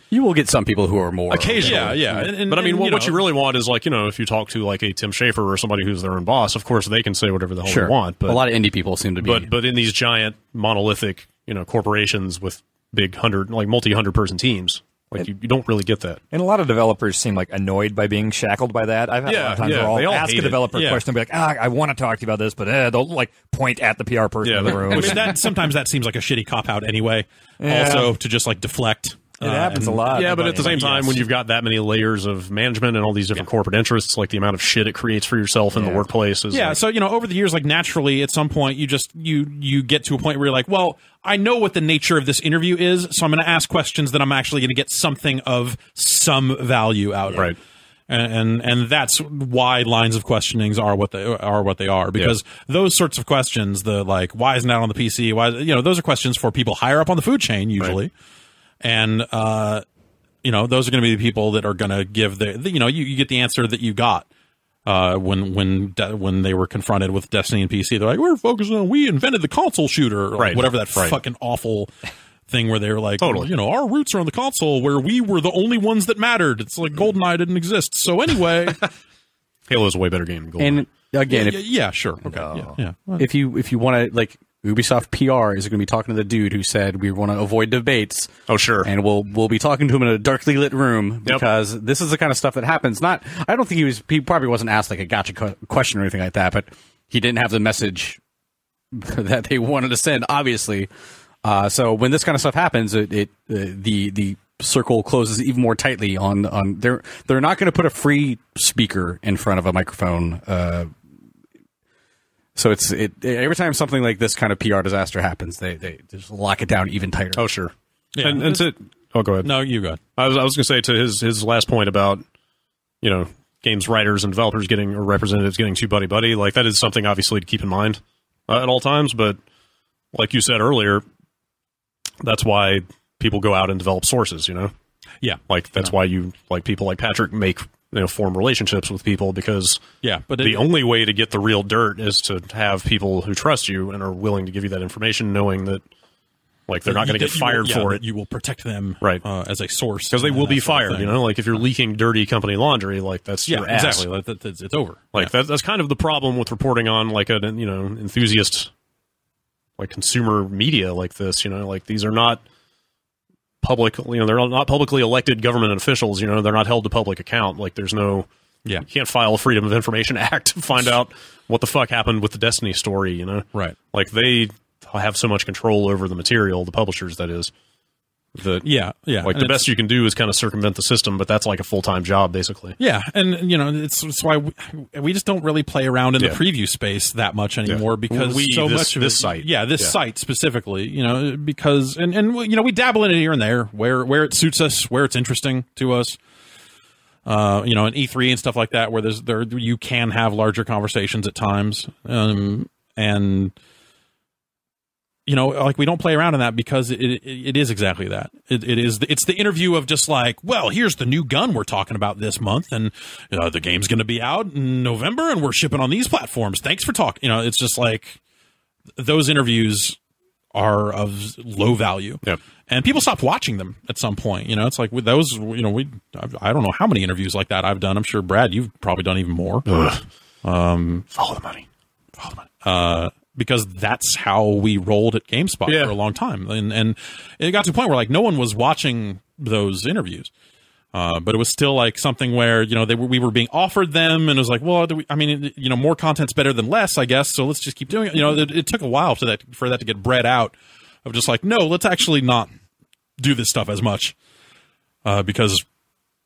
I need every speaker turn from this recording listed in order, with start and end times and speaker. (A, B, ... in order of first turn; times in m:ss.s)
0:00.1-0:02.2 A
0:01.3-0:08.5 B
0:01.4-0:03.2 C
0:07.6-0:09.5 A
0:09.2-0:16.2 B
0:16.3-0:25.4 D
0:19.2-0:20.6 B
0:20.7-0:21.0 C
0:24.4-0:25.4 B
0:24.7-0:31.0 C
0:27.6-0:28.1 D
0:29.4-0:31.2 D
0:30.1-0:36.8 B
0:35.7-0:36.0 D
0:36.5-0:47.5 C
0:48.1-0:58.1 C
0:58.8-0:59.8 C
1:00.4-1:04.3 C
1:04.8-1:11.9 C
1:10.4-1:11.2 B
1:12.5-1:18.9 C
1:13.2-1:13.5 B
1:19.7-1:20.8 B
1:20.6-1:21.6 A
1:21.3-1:23.3 C
1:22.2-1:22.7 D
1:23.2-1:38.2 A
1:28.5-1:28.9 B
1:38.9-1:40.9 A
1:41.4-1:50.9 A
1:52.6-1:57.4 A
1:57.4-1:59.5 B
1:58.1-1:58.6 C
1:59.4-2:00.0 C
2:00.2-2:02.2 B
2:03.0-2:09.4 B
2:10.1-2:11.0 B
2:12.2-2:14.7 B
2:15.2-2:15.9 C
2:15.5-2:19.8 B
2:20.0-2:20.6 C
2:20.4-2:25.8 B
2:26.7-2:28.0 B
2:26.8-2:31.2 C
2:30.1-2:34.1 B
2:33.5-2:35.3 C
2:35.1-2:38.7 B
2:39.8-2:42.4 B
2:43.6-2:48.3 B
2:48.8-2:57.5 B
2:58.3-2:58.7 B
2:58.6-2:59.7 C
2:59.2-3:02.8 B
3:02.8-3:16.2 C
3:07.6-3:10.0 B
3:17.2-3:23.5 C
3:25.2-3:38.2 C
3:39.0-3:40.0 C
3:40.5-3:49.7 C
3:49.7-3:50.0 B
3:50.4-3:51.1 C
3:51.1-3:51.6 B
3:52.2-4:00.3 C
3:55.6-3:55.9 B
4:00.9-4:12.5 C
4:13.2-4:14.2 C
4:15.0-4:15.6 C